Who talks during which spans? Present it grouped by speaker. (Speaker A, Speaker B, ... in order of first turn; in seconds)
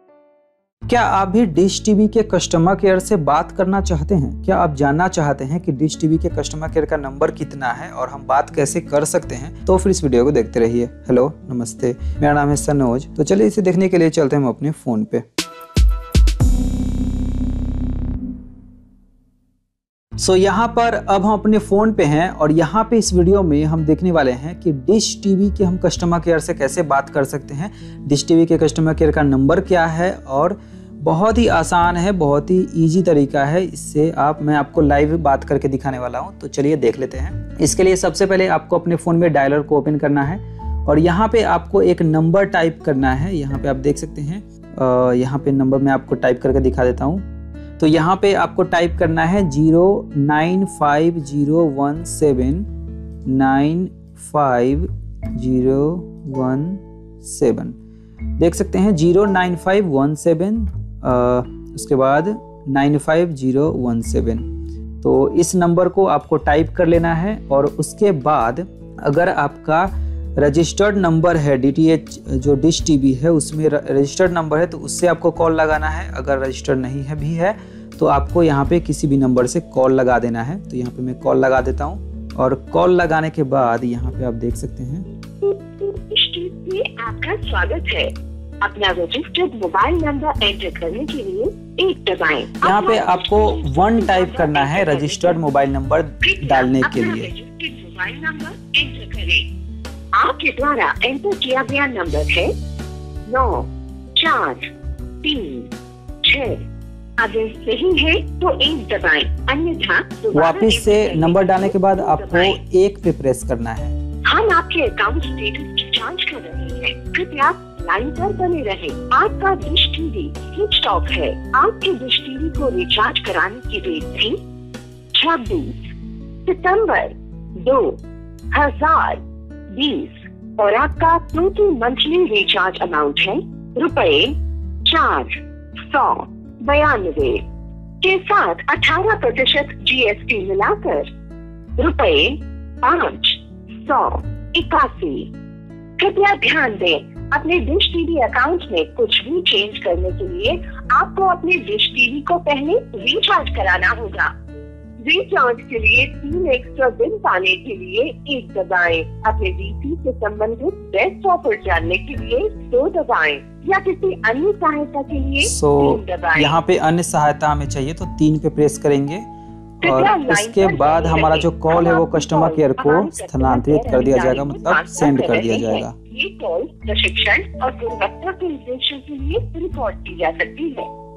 Speaker A: 0.9-15.2, 20.2-47.2, 47.8-52.7, 53.3-57.8, 58.4-64.5, 65.0-85.1, 92.6-97.3, 110.3-114.0, 165.4-169.2, 169.8-175.9
Speaker B: 85.4-95.4, 96.2-99.5, 100.1-102.5, 103.3-104.6, 105.2-105.7, 106.2-106.6, 107.2-112.6, 114.2-124.4, 125.1-125.9, 126.5-128.0, 128.5-135.3, 135.9-137.4, 138.0-141.1, 141.8-145.3, 146.0-154.3, 155.0-166.6, 169.8-180.9